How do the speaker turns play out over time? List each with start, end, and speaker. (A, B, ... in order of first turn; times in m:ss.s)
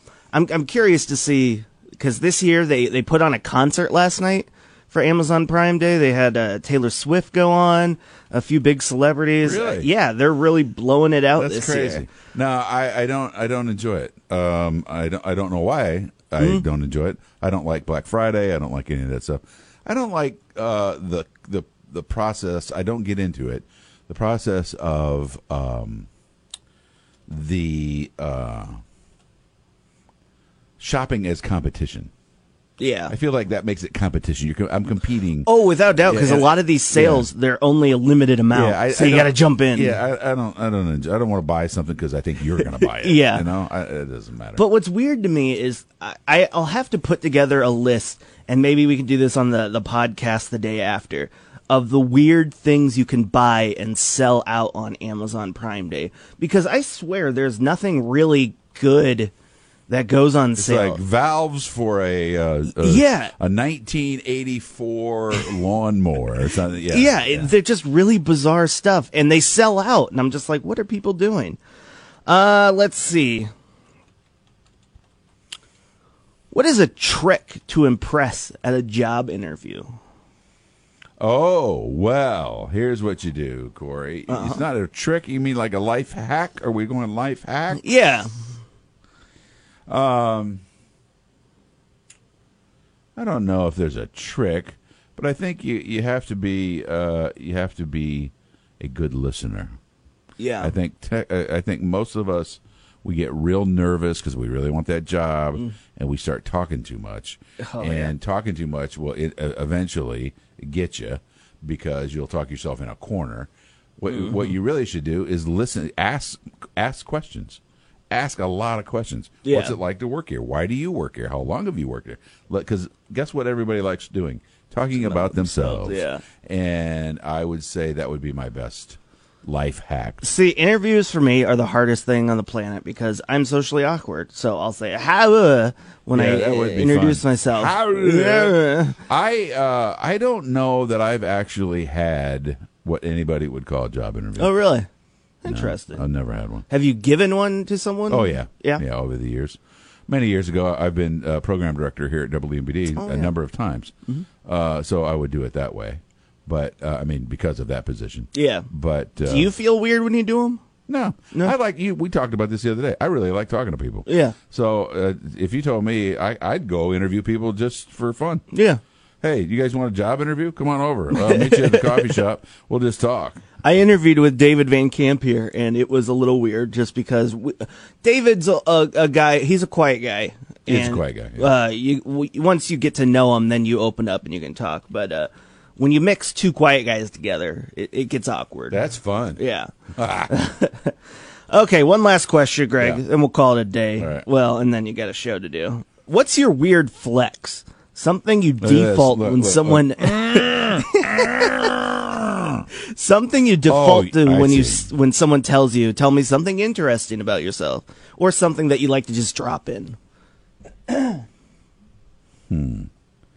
0:00.3-0:12.0 A
0:09.4-0:09.9 B
0:11.4-0:26.1 B
0:27.3-0:28.8 B
0:30.8-0:32.1 B
0:32.8-0:33.1 A
0:33.1-0:37.3 B
0:35.4-0:40.0 A
0:38.5-0:44.6 B
0:42.8-0:43.4 A
0:44.6-0:59.3 A
0:59.9-1:01.0 A
1:00.6-1:07.5 B
1:02.7-1:03.3 A
1:06.9-1:11.6 A
1:12.2-1:13.5 A
1:16.5-1:19.9 A
1:21.2-1:27.8 B
1:24.3-1:24.6 A
1:27.7-1:28.4 A
1:29.9-1:30.6 B
1:33.2-1:39.8 B
1:40.4-1:40.7 A
1:40.6-1:57.6 B
1:47.6-1:48.1 A
1:54.1-1:54.5 A
1:58.1-2:10.2 B
1:59.4-1:59.8 A
2:05.0-2:06.2 A
2:10.2-2:19.0 A
2:16.1-2:24.6 B
2:24.4-2:24.9 A
2:25.4-2:26.0 A
2:25.4-2:26.6 B
2:26.7-2:28.8 A
2:28.1-2:33.9 B
2:32.9-2:33.3 A
2:34.4-2:39.5 B
2:38.3-2:38.7 A
2:39.2-2:40.6 A
2:40.9-2:48.4 B
2:44.0-2:44.4 A
2:48.5-2:48.8 A
2:49.2-2:53.4 B
2:51.1-2:52.2 A
2:53.6-3:08.8 A
3:00.7-3:01.5 B
3:08.7-3:09.4 B
3:09.4-3:09.7 A
3:09.9-3:10.4 B
3:10.3-3:11.0 A
3:11.5-3:21.7 A
3:14.0-3:14.2 B
3:18.6-3:22.6 B
3:22.7-3:30.0 A
3:23.7-3:24.9 B
3:30.9-3:31.2 A
3:32.5-3:32.9 B